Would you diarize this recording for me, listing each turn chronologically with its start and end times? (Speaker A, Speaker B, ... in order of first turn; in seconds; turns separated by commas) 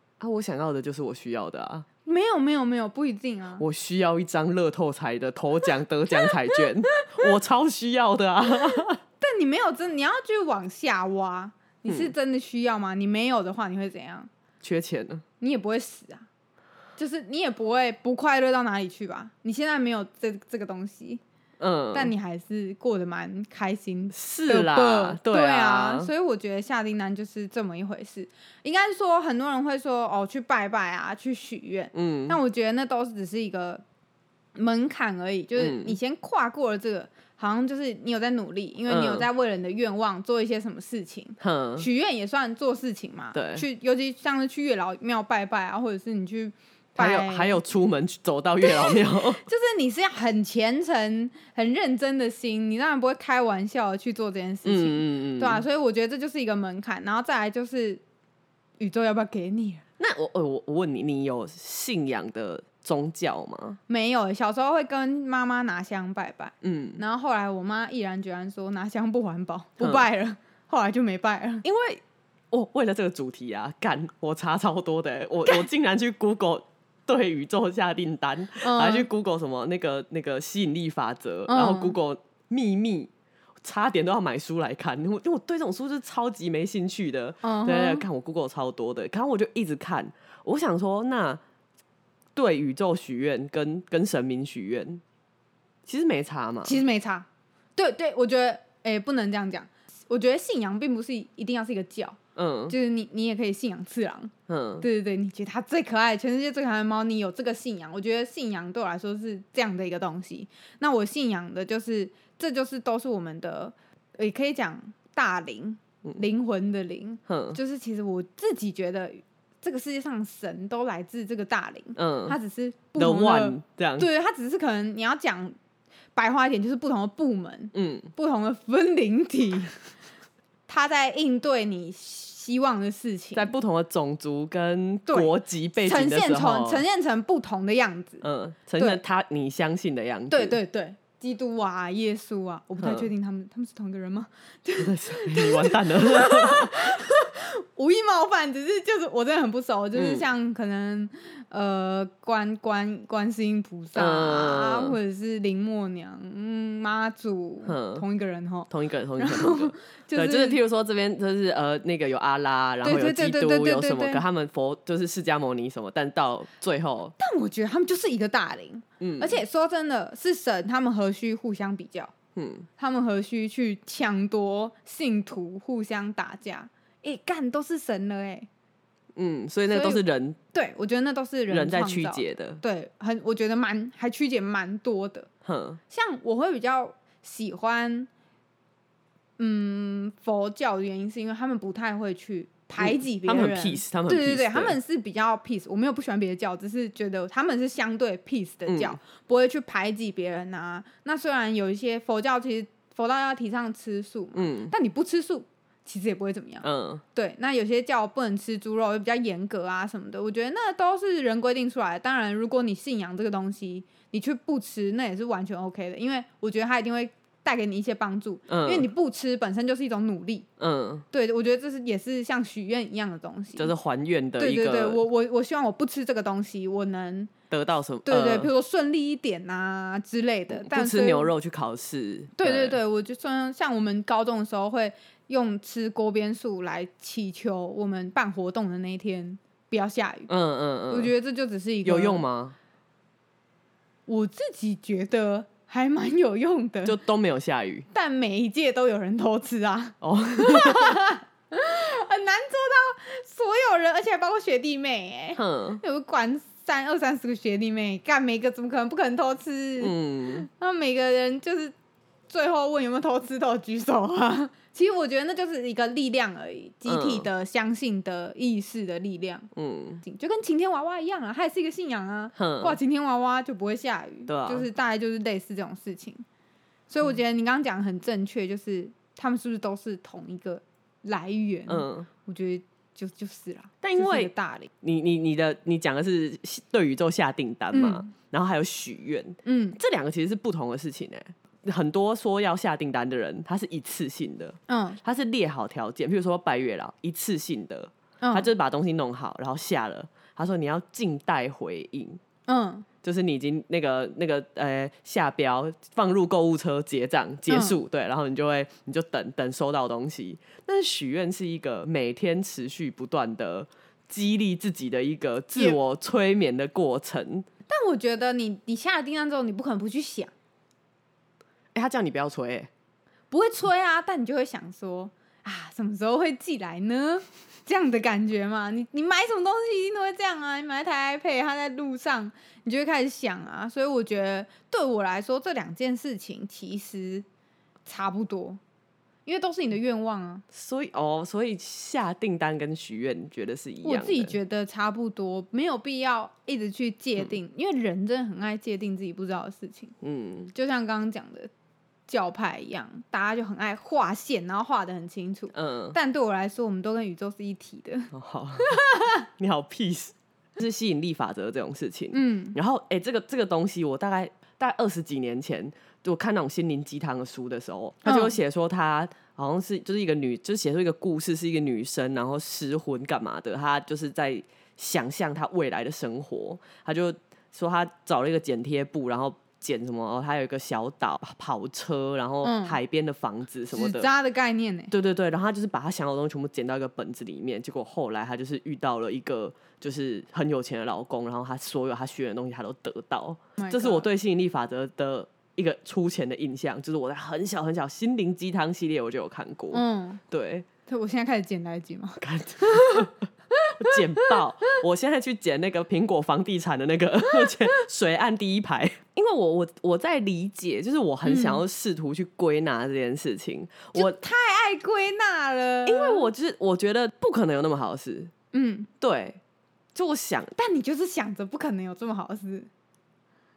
Speaker A: 0.2-1.9, Speaker B: 2.0-3.6, Speaker A: 3.6-9.0, Speaker B: 6.2-7.3, Speaker B: 9.2-14.3, Speaker A: 11.9-12.1, Speaker A: 14.6-15.2, Speaker B: 15.4-16.3, Speaker B: 17.0-21.2, Speaker A: 21.6-22.1, Speaker B: 21.9-33.8, Speaker A: 24.1-26.1, Speaker A: 31.9-32.4, Speaker B: 34.5-47.6, Speaker A: 35.5-36.0, Speaker A: 38.9-39.3, Speaker A: 41.4-41.9, Speaker A: 43.3-43.6, Speaker A: 47.0-49.4, Speaker B: 48.6-58.0, Speaker A: 54.6-55.6, Speaker B: 58.8-59.8, Speaker A: 60.0-63.8, Speaker B: 63.9-71.6, Speaker A: 66.6-67.0, Speaker A: 69.8-70.0, Speaker A: 71.6-83.1, Speaker B: 78.6-79.1, Speaker B: 81.5-82.0, Speaker A: 83.6-91.4, Speaker B: 87.4-88.0, Speaker A: 92.3-95.0, Speaker A: 95.8-96.8, Speaker B: 96.6-102.2, Speaker A: 102.3-102.8, Speaker B: 102.7-125.5, Speaker A: 104.5-104.8, Speaker A: 117.3-117.6, Speaker A: 122.0-122.4, Speaker A: 123.0-124.1, Speaker B: 126.2-129.9, Speaker A: 127.7-128.1, Speaker B: 130.7-133.5, Speaker A: 133.3-136.8, Speaker B: 135.1-138.2, Speaker A: 138.2-140.6, Speaker B: 140.3-160.6, Speaker A: 142.8-143.1, Speaker A: 144.8-147.1, Speaker A: 149.9-150.2, Speaker A: 153.9-155.0, Speaker A: 157.6-158.0, Speaker A: 158.7-167.1, Speaker B: 162.8-164.2, Speaker B: 167.2-172.1, Speaker A: 169.0-169.4, Speaker A: 172.3-172.7, Speaker B: 172.8-178.5, Speaker A: 179.2-180.4, Speaker B: 179.7-185.3, Speaker A: 181.5-182.6, Speaker A: 185.4-185.8, Speaker B: 185.9-188.1, Speaker B: 189.4-220.5, Speaker A: 192.8-194.8, Speaker A: 198.7-199.0, Speaker A: 204.3-204.7, Speaker A: 206.6-207.0, Speaker A: 218.5-218.9, Speaker A: 220.6-221.0, Speaker B: 221.1-223.7, Speaker A: 223.6-225.0, Speaker B: 224.4-227.3, Speaker A: 227.5-228.5, Speaker B: 228.1-231.3, Speaker A: 230.5-232.8, Speaker B: 232.4-240.3, Speaker A: 240.3-241.1, Speaker B: 240.9-242.2, Speaker A: 241.8-242.6, Speaker B: 244.1-247.0, Speaker A: 246.8-247.9, Speaker B: 247.9-261.7, Speaker A: 250.0-251.0, Speaker A: 255.4-255.8, Speaker A: 259.8-260.5, Speaker B: 262.3-269.5, Speaker A: 266.9-267.3, Speaker A: 269.5-270.0, Speaker B: 270.0-276.2, Speaker A: 272.4-272.8, Speaker A: 274.3-274.7, Speaker B: 276.9-284.7, Speaker A: 281.7-282.1, Speaker A: 283.8-302.2, Speaker B: 287.7-288.1, Speaker B: 289.4-289.8, Speaker B: 294.7-295.0, Speaker B: 298.2-298.5, Speaker B: 302.5-302.9, Speaker A: 303.0-317.5, Speaker B: 307.5-307.8, Speaker B: 317.7-320.3, Speaker A: 321.7-322.7, Speaker B: 323.3-337.2, Speaker B: 337.9-338.6, Speaker B: 339.2-340.4, Speaker A: 340.5-344.3, Speaker B: 343.8-349.9, Speaker A: 350.0-350.5, Speaker B: 350.5-351.5, Speaker B: 352.1-358.1, Speaker A: 355.5-356.0, Speaker A: 358.1-384.1, Speaker B: 358.6-359.1, Speaker B: 362.1-362.6, Speaker B: 368.0-368.3, Speaker B: 382.4-382.8, Speaker B: 383.7-384.9, Speaker A: 384.9-400.6, Speaker B: 393.6-394.1, Speaker B: 399.7-400.2, Speaker B: 400.9-404.3, Speaker A: 402.2-403.1, Speaker A: 403.8-414.2, Speaker B: 411.2-411.6, Speaker B: 413.9-416.3, Speaker A: 415.8-418.3, Speaker B: 418.5-418.9, Speaker A: 419.0-419.4, Speaker A: 419.9-420.5, Speaker B: 420.6-422.7